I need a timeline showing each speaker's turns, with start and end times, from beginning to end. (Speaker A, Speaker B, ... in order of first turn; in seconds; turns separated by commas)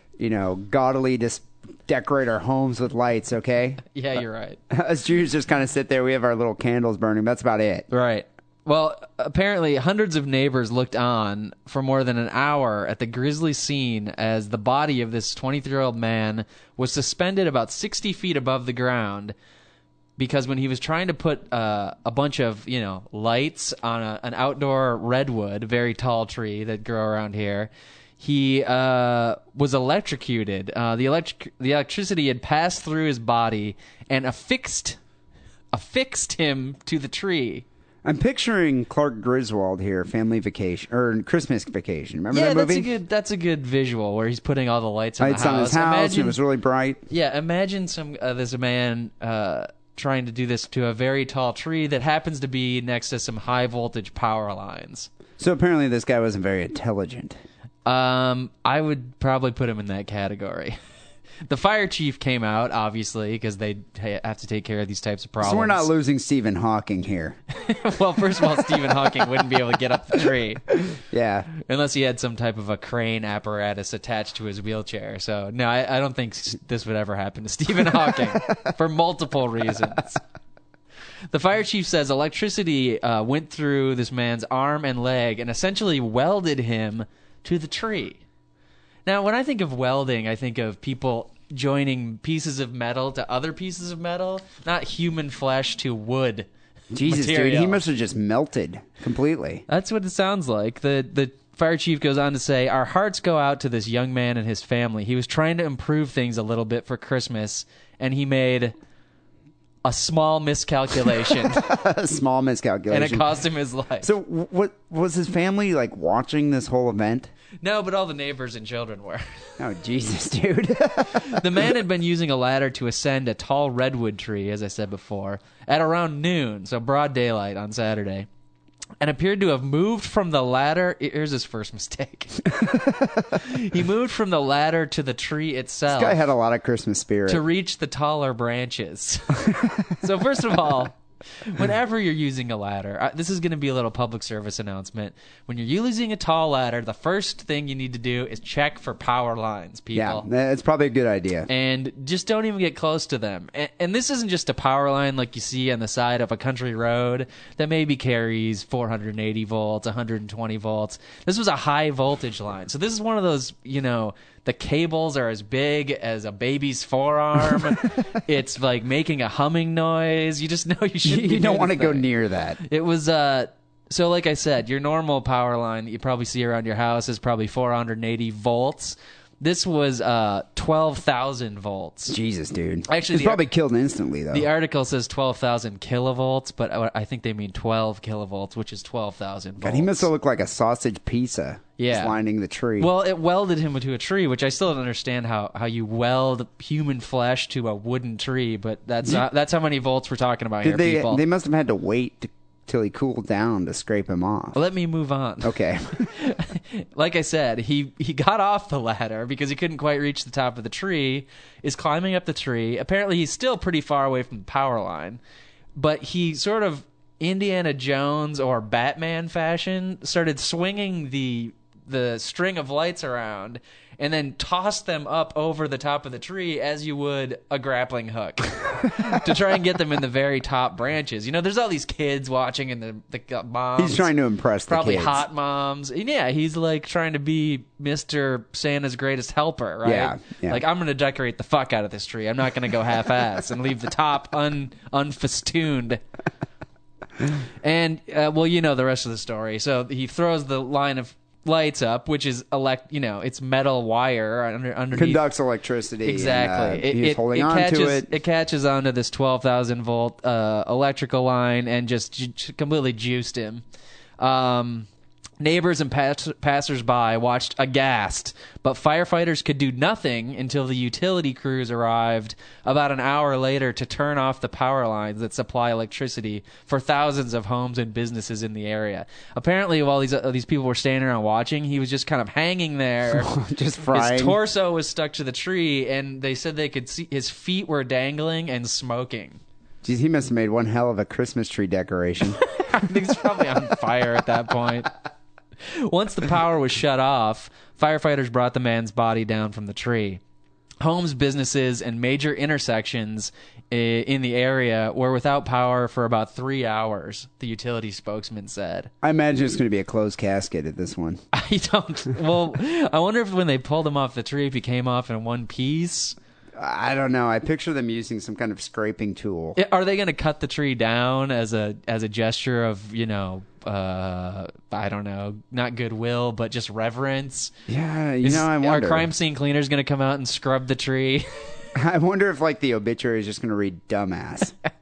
Speaker A: 0.2-3.8, Speaker B: 3.9-4.6, Speaker A: 4.7-7.8, Speaker B: 7.9-19.3, Speaker B: 20.2-35.0, Speaker B: 35.7-37.6, Speaker A: 38.0-42.9, Speaker B: 42.3-46.4, Speaker A: 45.2-47.0, Speaker B: 47.1-55.1, Speaker A: 55.4-57.4, Speaker B: 57.8-60.8, Speaker B: 61.4-65.9, Speaker A: 65.4-67.4, Speaker B: 67.5-70.8, Speaker A: 70.9-71.5, Speaker B: 71.5-80.2, Speaker B: 81.3-88.2, Speaker B: 89.0-96.5, Speaker A: 96.9-99.6, Speaker B: 97.0-97.8, Speaker B: 99.7-108.7, Speaker B: 109.8-111.7, Speaker A: 111.4-113.3, Speaker B: 112.9-114.1, Speaker A: 114.0-117.3, Speaker B: 117.6-119.2, Speaker A: 119.6-121.5, Speaker B: 121.1-128.3, Speaker B: 129.0-132.4, Speaker A: 132.6-133.1, Speaker B: 133.3-136.2, Speaker A: 135.9-137.4, Speaker B: 137.3-150.2, Speaker A: 149.9-151.5, Speaker B: 151.5-172.1, Speaker A: 171.0-172.6, Speaker B: 172.6-182.2, Speaker A: 182.1-184.5, Speaker B: 182.9-183.4, Speaker B: 184.3-190.1, Speaker A: 189.6-192.9, Speaker B: 191.8-192.1, Speaker B: 192.8-201.2, Speaker A: 200.6-204.6, Speaker B: 204.5-215.2, Speaker A: 205.4-206.1, Speaker B: 215.7-234.1, Speaker A: 233.8-235.2, Speaker B: 234.7-246.0, Speaker A: 239.8-240.6, Speaker B: 247.6-255.2, Speaker A: 254.9-258.1, Speaker B: 256.0-263.6, Speaker B: 264.2-264.9, Speaker B: 265.4-283.3, Speaker A: 283.1-284.4, Speaker B: 283.9-289.4, Speaker A: 289.8-292.4, Speaker B: 292.4-294.9, Speaker B: 295.7-300.2, Speaker B: 300.8-308.9, Speaker A: 309.0-311.2, Speaker B: 311.3-316.1, Speaker A: 316.6-319.6, Speaker B: 319.5-327.5, Speaker A: 327.7-329.1, Speaker B: 328.2-331.4, Speaker A: 331.7-334.5